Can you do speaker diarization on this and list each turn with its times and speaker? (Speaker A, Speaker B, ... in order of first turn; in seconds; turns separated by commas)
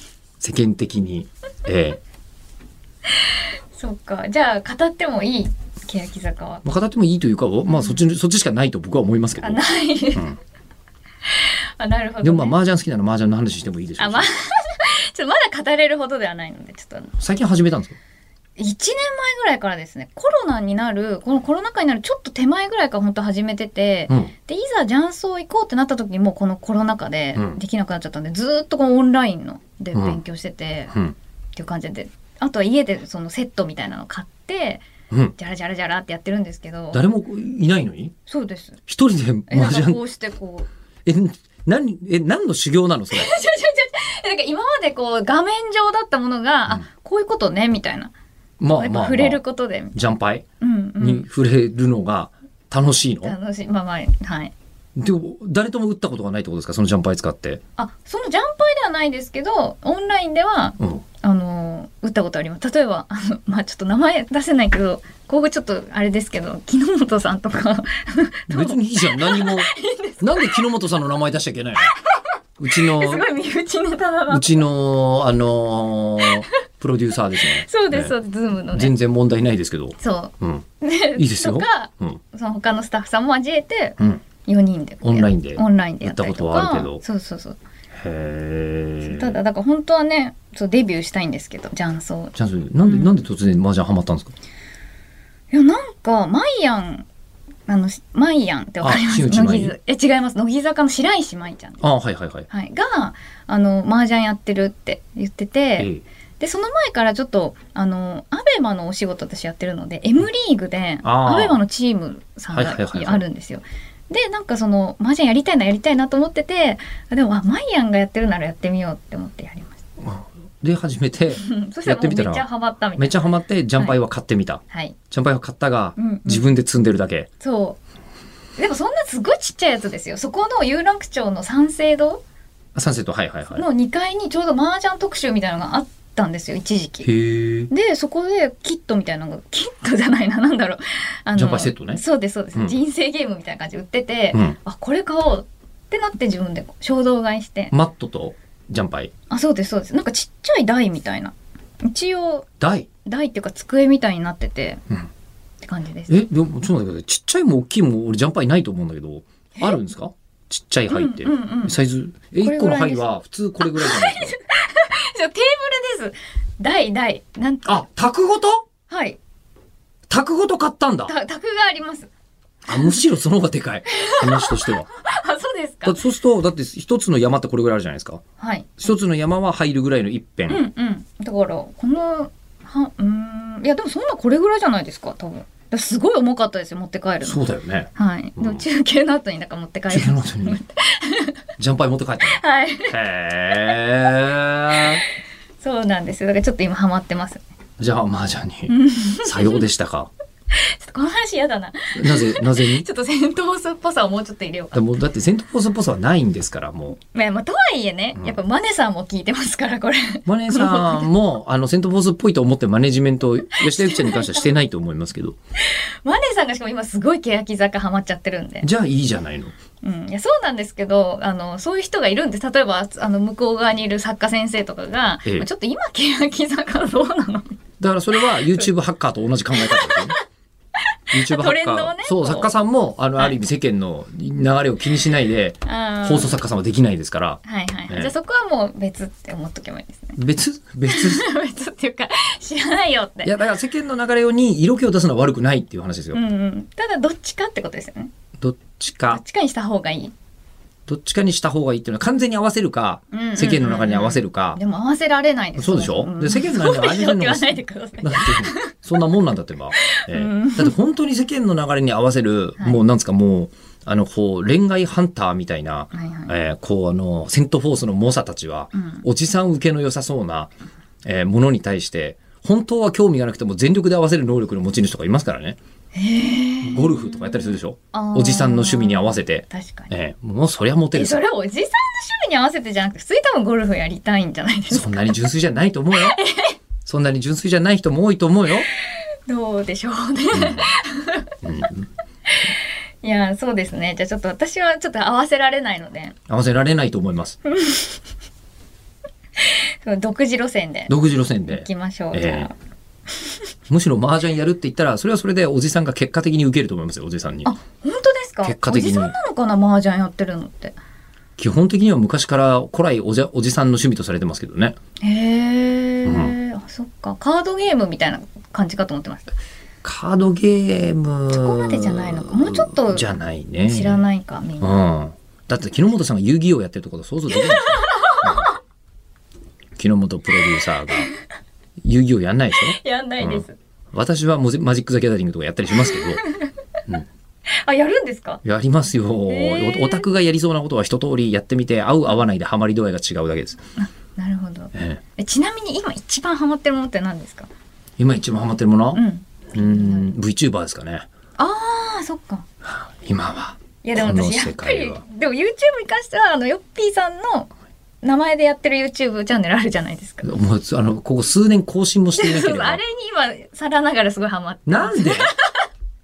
Speaker A: 0.4-2.0, Speaker B: 3.7-6.6, Speaker A: 6.6-9.6, Speaker B: 7.7-8.0, Speaker B: 9.4-10.3, Speaker B: 11.3-12.6, Speaker A: 12.2-14.3, Speaker B: 14.0-17.1, Speaker A: 17.2-18.0, Speaker B: 18.6-30.9, Speaker A: 24.1-24.3, Speaker A: 27.4-27.6, Speaker A: 29.9-30.2, Speaker B: 31.6-37.0, Speaker A: 36.9-38.1, Speaker B: 38.3-38.8, Speaker A: 38.9-40.0, Speaker B: 39.5-40.7, Speaker A: 41.0-43.3, Speaker B: 43.1-48.1, Speaker A: 48.6-49.4, Speaker B: 48.8-50.0, Speaker A: 49.9-50.5, Speaker B: 50.6-51.3, Speaker A: 51.0-53.4, Speaker B: 53.2-54.5, Speaker A: 55.0-57.6, Speaker B: 57.8-70.6, Speaker A: 60.8-61.0, Speaker A: 68.5-71.9, Speaker B: 71.9-74.7, Speaker A: 72.6-73.3, Speaker A: 74.3-78.2, Speaker B: 76.2-76.5, Speaker B: 77.4-79.0, Speaker A: 78.7-82.2, Speaker B: 80.0-87.6, Speaker A: 85.0-87.0, Speaker A: 87.9-89.4, Speaker B: 89.0-93.2, Speaker A: 92.3-94.3, Speaker B: 95.5-97.1, Speaker B: 97.7-101.9, Speaker A: 98.8-99.8, Speaker A: 101.8-102.5, Speaker B: 102.5-119.8, Speaker A: 105.8-106.0, Speaker A: 111.0-111.6, Speaker A: 112.5-113.2, Speaker A: 120.0-127.3, Speaker B: 121.3-123.2, Speaker B: 124.7-125.0, Speaker B: 126.0-126.5, Speaker B: 127.4-127.8, Speaker B: 128.6-132.2, Speaker A: 132.8-133.7, Speaker B: 133.6-137.1, Speaker A: 137.0-137.7, Speaker B: 137.7-147.7, Speaker A: 141.3-142.0, Speaker A: 147.7-149.1, Speaker B: 149.3-152.5, Speaker A: 152.6-152.9, Speaker B: 153.1-154.8, Speaker B: 155.6-156.2, Speaker A: 156.1-164.4, Speaker B: 160.9-161.8, Speaker B: 162.4-163.1, Speaker B: 163.6-167.8, Speaker A: 167.7-168.6, Speaker B: 168.9-169.2, Speaker A: 170.1-171.1, Speaker B: 171.1-172.1, Speaker A: 172.7-174.9, Speaker B: 172.7-173.0, Speaker B: 173.9-176.0, Speaker A: 175.8-178.2, Speaker B: 178.4-178.8, Speaker A: 178.8-180.6, Speaker B: 180.5-191.4, Speaker A: 187.2-188.7, Speaker A: 189.9-190.6, Speaker A: 191.6-195.0, Speaker B: 192.2-193.0, Speaker B: 195.6-197.4, Speaker A: 197.8-200.1, Speaker B: 198.7-199.7, Speaker B: 200.5-204.8, Speaker A: 201.9-202.9, Speaker A: 204.7-207.0, Speaker B: 207.0-211.1, Speaker A: 210.3-215.4, Speaker B: 213.6-214.4, Speaker B: 215.6-218.7, Speaker A: 218.6-219.6, Speaker B: 219.8-227.6, Speaker A: 227.8-230.2, Speaker B: 229.5-230.2, Speaker B: 230.9-232.5, Speaker A: 231.1-238.1, Speaker B: 235.6-236.4, Speaker B: 237.4-240.2, Speaker A: 240.2-241.3, Speaker B: 240.9-243.3, Speaker A: 243.2-246.2, Speaker B: 246.1-248.1, Speaker A: 248.4-249.2, Speaker B: 249.1-250.1, Speaker A: 250.9-254.6, Speaker B: 253.1-258.8, Speaker A: 255.6-270.5, Speaker B: 259.8-260.7, Speaker B: 265.9-266.4, Speaker B: 268.7-269.1, Speaker A: 271.0-275.6, Speaker B: 275.9-279.9, Speaker A: 276.6-281.2, Speaker B: 280.9-285.1, Speaker A: 284.7-286.2, Speaker B: 285.9-286.6, Speaker A: 286.9-288.7, Speaker B: 288.8-291.3, Speaker A: 290.3-290.7, Speaker A: 291.4-291.9, Speaker B: 292.3-296.2, Speaker A: 296.3-297.4, Speaker B: 297.5-298.0, Speaker B: 299.4-301.0, Speaker A: 300.9-302.5, Speaker B: 301.5-302.6, Speaker A: 303.7-307.5, Speaker B: 307.4-310.8, Speaker A: 308.4-309.1, Speaker A: 311.4-314.8, Speaker B: 315.0-319.4, Speaker A: 316.1-316.4, Speaker A: 319.8-324.0, Speaker B: 321.3-324.8, Speaker A: 324.6-328.5, Speaker B: 327.3-328.6, Speaker A: 329.8-331.1, Speaker A: 331.8-336.2, Speaker B: 332.6-333.6, Speaker B: 335.9-336.5, Speaker B: 337.5-338.4, Speaker A: 338.4-343.6, Speaker B: 339.3-340.1, Speaker B: 343.8-347.5, Speaker A: 344.8-345.0, Speaker A: 348.0-349.0, Speaker B: 348.9-350.1, Speaker A: 349.5-351.1, Speaker B: 351.4-352.5, Speaker A: 352.6-355.0, Speaker B: 353.8-357.5, Speaker B: 358.0-360.3, Speaker A: 360.2-362.8, Speaker B: 362.1-365.7, Speaker A: 364.7-365.3